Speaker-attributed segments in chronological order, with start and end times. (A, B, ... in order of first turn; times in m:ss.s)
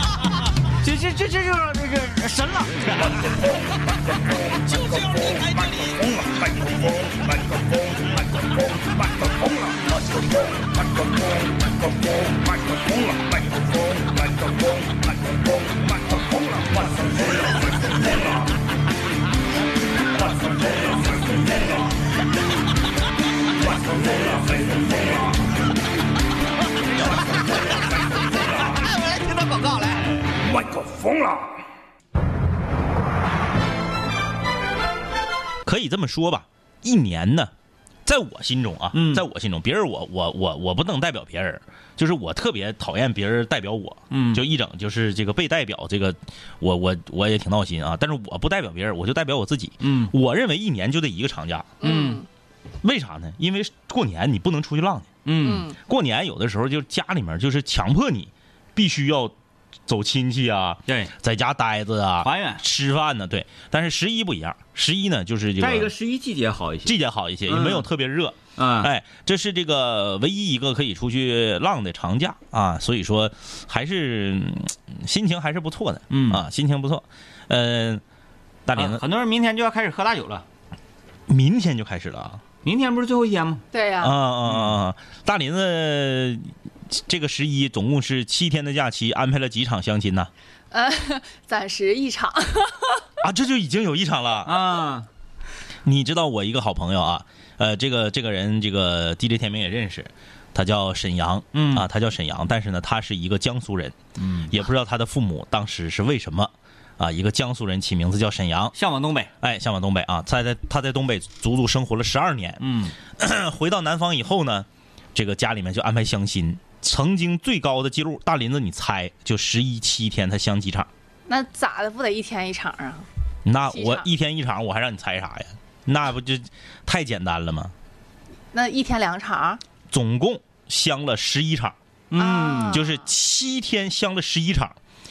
0:00.8-0:03.2 A
0:04.4-0:07.1 B
0:28.5-0:30.4 A
0:30.6-0:31.4 B
0:35.6-0:37.5 B
0:38.1-0:51.7 B
0:38.9-0:39.2 A
0:44.1-0:44.4 A
0:49.8-0:50.1 A
0:51.8-0:52.3 C
0:51.8-0:52.2 A
0:52.8-0:55.1 B
0:55.2-0:55.7 A
0:55.4-0:55.8 C
0:55.7-0:59.3 B
0:59.9-1:05.9 B
1:00.9-1:01.1 A
1:02.2-1:02.6 A
1:05.6-1:07.0 A
1:06.8-1:18.0 B
1:07.5-1:07.9 A
1:08.6-1:08.9 A
1:16.1-1:16.4 A
1:18.7-1:19.0 B
1:18.8-1:20.5 A
1:21.3-1:22.4 B
1:22.6-1:23.6 A
1:23.7-1:24.2 C
1:24.0-1:30.3 B
1:24.5-1:24.7 A
1:30.7-1:33.0 C
1:33.2-1:34.6 B
1:34.4-1:35.1 A
1:35.8-1:44.0 B
1:41.5-1:41.9 A
1:44.2-1:44.5 A
1:44.5-1:48.7 B
1:48.7-1:49.3 A
1:49.4-2:00.9 B
1:52.6-1:53.0 A
2:01.3-2:03.1 C
2:03.4-2:07.7 B
2:03.7-2:04.1 C
2:08.5-2:09.6 C
2:09.9-2:11.8 B
2:12.1-2:12.8 A
2:12.2-2:13.0 C
2:12.7-2:14.8 B